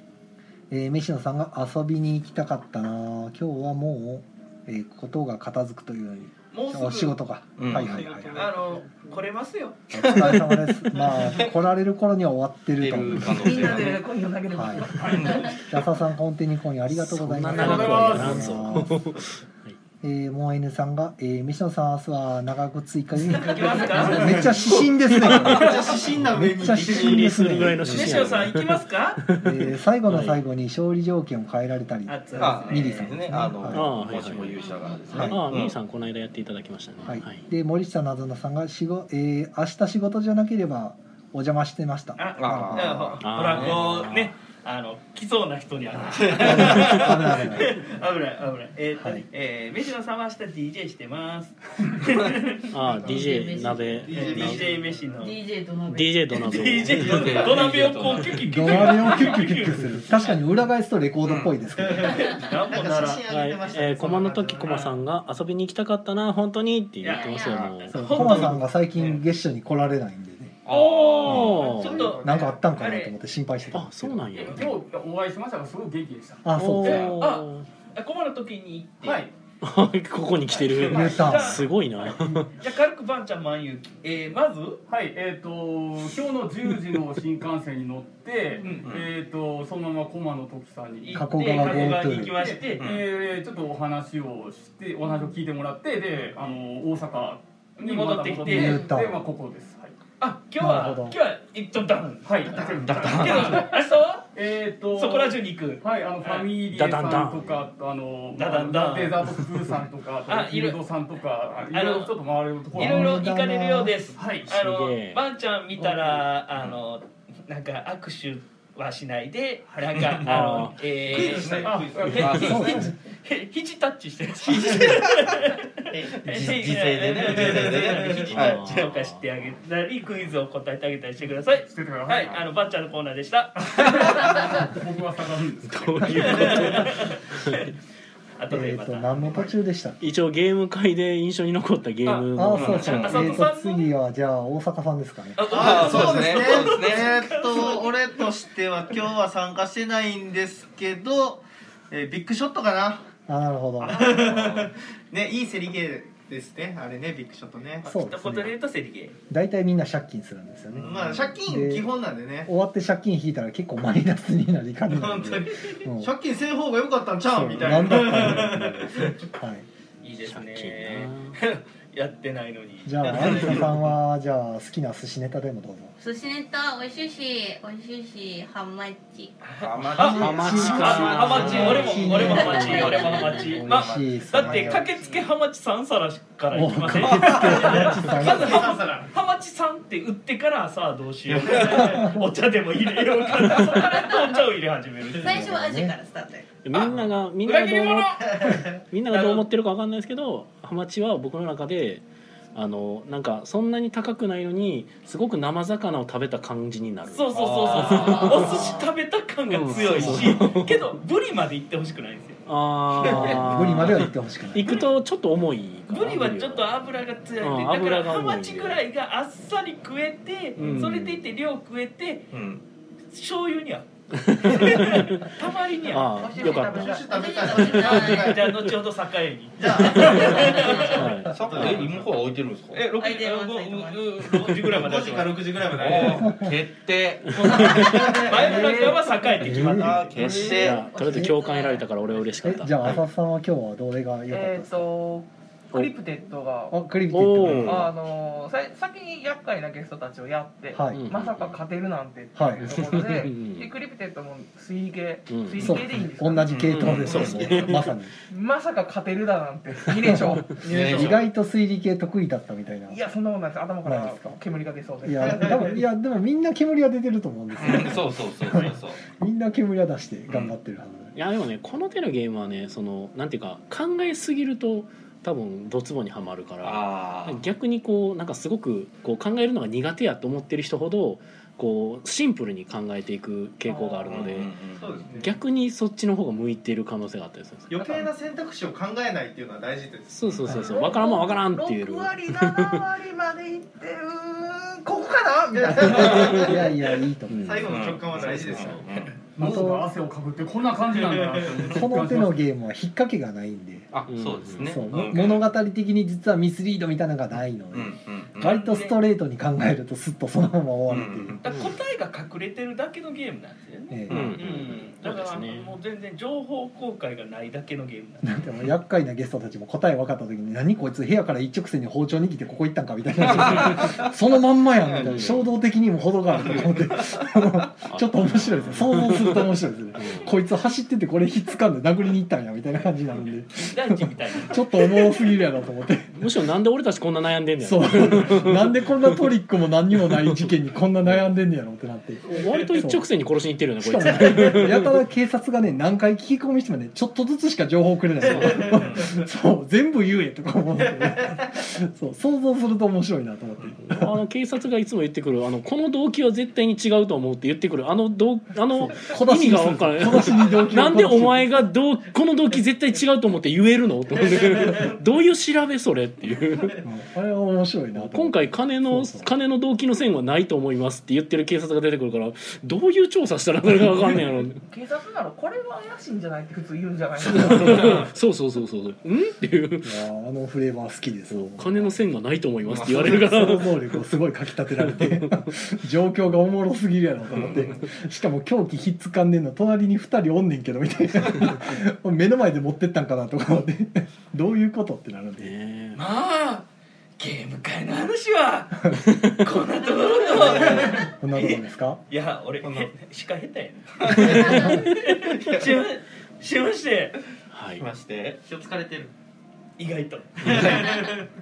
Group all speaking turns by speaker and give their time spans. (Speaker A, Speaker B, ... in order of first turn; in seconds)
Speaker A: 0.7-8.5, 9.9-13.8, 14.5-19.1, 20.0-28.3, 29.4-33.9, 35.1-35.4, 37.0-43.0, 46.0-47.8, 49.0-49.2, 58.4-62.3, 67.9-70.6, 72.2-74.3, 76.4-77.2, 80.9-81.7, 91.1-92.3, 98.5-99.2, 100.6-101.2, 112.7-114.1, 122.4-122.9, 138.5-140.0, 142.3-145.4, 153.3-154.1, 157.8-158.5, 159.3-161.9, 162.4-166.1, 167.2-169.7, 172.8-175.9, 180.0-184.9, 186.5-188.8, 191.8-192.3, 195.2-195.9, 209.9-210.3, 213.1-214.9, 236.2-236.5, 239.4-240.0, 241.0-241.3, 242.4-244.8, 246.7-247.8, 250.7-251.0, 252.3-252.8, 255.6-258.1, 260.1-263.0, 263.8-264.4, 265.0-271.1, 295.8-297.7, 299.4-299.9, 301.7-303.9, 304.6-311.4, 313.9-314.5, 318.2-336.2, 337.6-343.1, 343.8-354.1, 358.7-361.6, 366.8-369.3, 379.8-381.7, 382.7-395.5, 400.3-402.0, 404.4-404.8
Speaker B: 6.5-7.1, 8.3-9.8, 23.3-24.7, 27.8-29.2, 32.1-33.1, 42.1-52.6, 54.1-55.4, 56.3-60.4, 62.0-63.2, 64.6-64.9, 67.0-69.2, 70.7-73.1, 76.8-79.2, 80.5-84.8, 88.6-88.8, 91.0-92.8, 97.8-98.9, 100.2-104.3, 104.9-106.5, 108.3-109.4, 110.3-110.8, 111.7-112.1, 112.7-134.4, 136.1-137.7, 138.4-139.5, 142.0-143.9, 145.4-148.3, 157.8-159.2, 170.0-173.6, 179.4-195.5, 197.4-198.6, 199.1-199.4, 207.1-212.4, 213.1-213.3, 215.9-222.3, 223.1-226.7, 228.1-231.8, 232.7-236.1, 237.4-240.2, 308.4-309.0, 311.4-318.3, 333.6-335.2, 395.9-396.7, 397.2-407.2, 409.8-411.1
Speaker C: 7.6-8.4, 12.8-14.0, 15.1-15.5, 32.4-35.7, 42.4-43.8, 46.2-46.5, 56.9-59.1, 61.2-61.5, 70.7-71.7, 88.8-89.1, 92.8-93.0, 102.6-103.7, 119.9-120.3, 121.1-122.8, 124.5-125.4, 125.9-128.7, 142.5-143.3, 145.5-147.2, 154.2-154.7, 160.7-161.2, 179.6-182.3, 187.0-187.4, 191.2-192.1, 207.3-208.6, 209.8-210.2, 222.3-222.6, 231.3-232.8, 235.7-238.6, 239.7-240.8, 247.4-247.8, 256.5-257.7, 260.6-261.2, 267.6-269.0, 270.3-270.5, 276.6-277.4, 284.1-285.1, 290.2-290.6, 297.7-299.2, 303.9-305.4, 307.7-308.8, 310.9-311.4, 323.2-324.1, 324.8-325.4, 326.4-327.2, 348.7-349.2, 382.7-383.2, 387.3-387.8, 402.6-402.9, 404.1-404.6, 405.4-405.6, 407.8-408.5, 410.4-410.8
Speaker D: 7.8-9.2, 25.2-27.7, 52.7-54.9, 61.8-64.9, 71.6-72.6, 79.0-79.3, 102.5-103.0, 121.1-121.9, 127.2-128.3, 145.4-153.1, 153.8-157.9, 160.8-162.5, 164.9-169.2, 173.0-173.7, 179.8-182.3, 182.8-185.1, 187.2-189.1, 191.5-191.9, 198.3-198.8, 226.4-228.5, 229.6-232.2, 234.5-236.3, 237.4-238.9, 260.8-261.1, 265.2-265.5, 284.7-285.4, 287.7-290.3, 295.5-296.7, 297.4-298.9, 301.0-301.7, 360.4-360.7, 364.3-364.8, 404.4-404.7, 408.5-409.1, 410.4-411.2
Speaker E: 13.2-15.6, 226.0-227.2, 238.4-239.3, 240.2-241.3, 244.3-246.8, 247.6-256.6, 258.3-260.6, 262.9-265.8, 283.6-284.2, 290.5-296.5, 374.6-378.1
Speaker F: 16.9-19.7, 26.6-29.6, 30.1-30.4, 33.7-37.5, 43.2-44.3, 52.7-54.7, 55.9-57.6, 63.3-68.6, 71.2-72.0, 73.7-74.7, 76.5-77.7, 79.6-82.5, 106.7-107.7, 114.5-115.2, 120.2-120.8, 128.3-129.2, 135.6-137.7, 140.0-143.4, 170.2-171.4, 180.1-182.9, 196.6-202.0, 202.5-208.9, 209.5-210.8, 212.5-216.7, 217.4-218.8, 220.6-221.2, 224.2-225.3, 225.9-227.0, 227.6-228.7, 229.9-231.3, 237.4-237.9, 239.4-243.0, 247.1-247.9, 250.9-251.6, 252.6-253.7, 255.3-255.9, 256.7-257.9, 271.1-284.5, 285.2-288.1, 290.1-292.9, 295.9-296.4, 297.3-298.8, 304.1-304.8, 311.4-311.7, 314.1-315.7, 325.0-325.5, 327.9-330.3, 336.1-339.2, 340.2-340.5, 342.3-345.0, 348.2-348.8, 353.8-366.8, 367.9-374.6, 377.2-380.0, 381.3-384.0, 384.8-385.3, 395.4-396.0, 399.0-399.4, 404.2-404.7, 407.5-407.9
Speaker G: 17.5-18.6, 74.4-76.5, 84.9-100.0, 102.2-113.2, 114.1-114.5, 121.6-122.7, 131.7-132.4, 133.8-136.8, 299.4-302.4
Speaker H: 34.6-35.0, 52.9-54.4, 55.2-56.8, 67.0-67.8, 176.0-179.4, 182.0-183.6, 195.2-196.5, 227.0-228.4, 230.5-230.8, 232.9-234.2, 241.2-241.8